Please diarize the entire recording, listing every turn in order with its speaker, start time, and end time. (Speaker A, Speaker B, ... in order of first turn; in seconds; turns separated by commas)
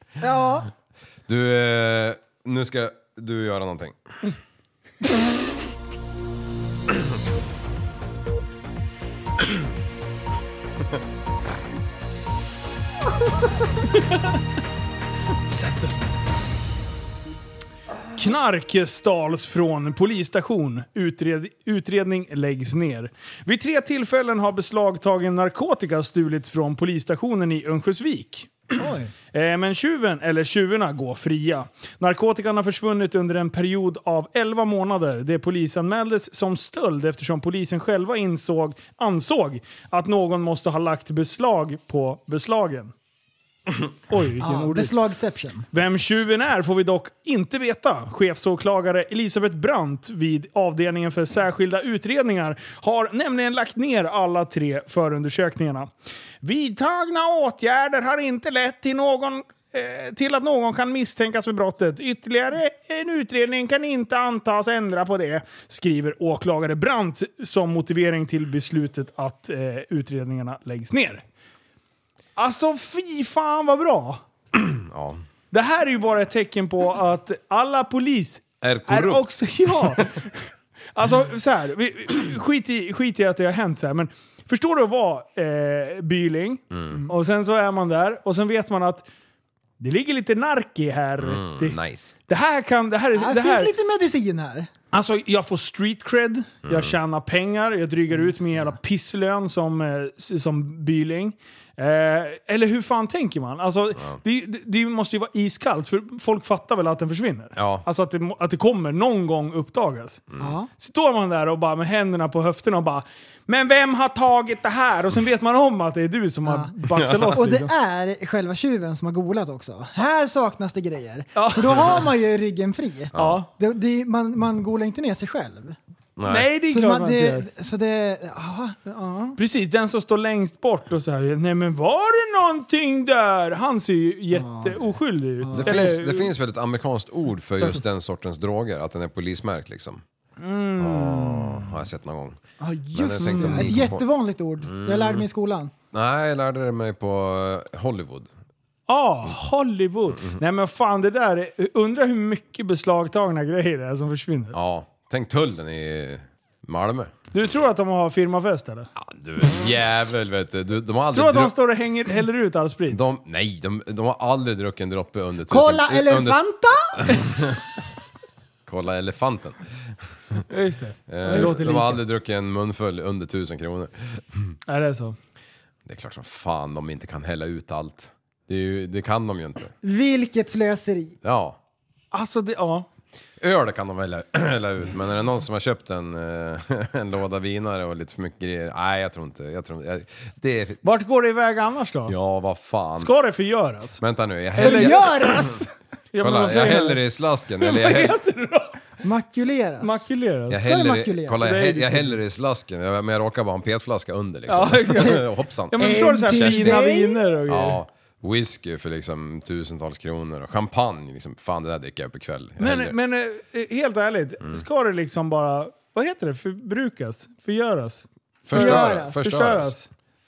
Speaker A: 0.2-0.7, Speaker B: 1.3-4.0, Speaker C: 15.5-15.9, Speaker C: 18.2-42.9, Speaker A: 28.8-29.1, Speaker C: 44.1-45.0, Speaker A: 44.4-45.7, Speaker C: 45.7-55.9, Speaker C: 56.4-71.2, Speaker C: 72.4-74.2, Speaker B: 74.5-75.2, Speaker C: 75.5-89.1, Speaker B: 78.6-80.1, Speaker B: 86.7-87.0, Speaker C: 89.8-93.7, Speaker B: 91.2-92.2, Speaker A: 93.2-94.7, Speaker C: 94.9-110.2, Speaker B: 96.7-97.0, Speaker B: 107.6-107.8, Speaker A: 110.4-110.7, Speaker C: 110.8-117.7, Speaker A: 116.5-116.7, Speaker B: 117.0-117.4, Speaker A: 117.3-125.8, Speaker C: 121.4-122.1, Speaker B: 123.1-123.4, Speaker C: 123.2-123.5, Speaker B: 126.2-126.5, Speaker C: 126.3-127.5, Speaker A: 126.7-129.4, Speaker C: 129.4-136.3, Speaker A: 134.3-134.8, Speaker A: 135.4-135.7, Speaker B: 135.5-140.0, Speaker C: 140.4-141.9, Speaker B: 140.8-142.4, Speaker A: 142.6-145.7, Speaker B: 142.9-144.0, Speaker C: 143.2-143.9, Speaker B: 144.6-145.3, Speaker B: 145.9-148.3, Speaker C: 148.9-154.6, Speaker B: 154.5-157.2, Speaker C: 157.3-158.9, Speaker B: 159.0-161.5, Speaker C: 161.1-163.0, Speaker B: 162.9-166.4, Speaker A: 165.5-167.1, Speaker B: 167.0-167.6, Speaker B: 168.7-169.7, Speaker C: 170.5-172.0, Speaker B: 171.1-174.6, Speaker A: 171.2-171.6, Speaker C: 174.7-175.2, Speaker B: 175.8-179.8, Speaker A: 179.8-181.2, Speaker B: 181.2-181.6, Speaker C: 182.1-182.9, Speaker B: 183.4-190.8, Speaker C: 190.8-192.2, Speaker B: 192.1-193.1, Speaker C: 193.0-194.0, Speaker B: 194.0-195.6, Speaker C: 194.6-195.1, Speaker A: 194.6-195.7, Speaker C: 196.1-197.0, Speaker B: 196.2-198.2, Speaker C: 197.6-198.8, Speaker A: 199.0-201.4, Speaker C: 199.8-200.7, Speaker B: 200.5-206.9, Speaker C: 201.4-202.2, Speaker C: 204.5-207.8, Speaker A: 205.8-207.2, Speaker B: 207.5-213.0, Speaker C: 212.6-219.9, Speaker B: 218.5-219.8, Speaker A: 218.5-219.2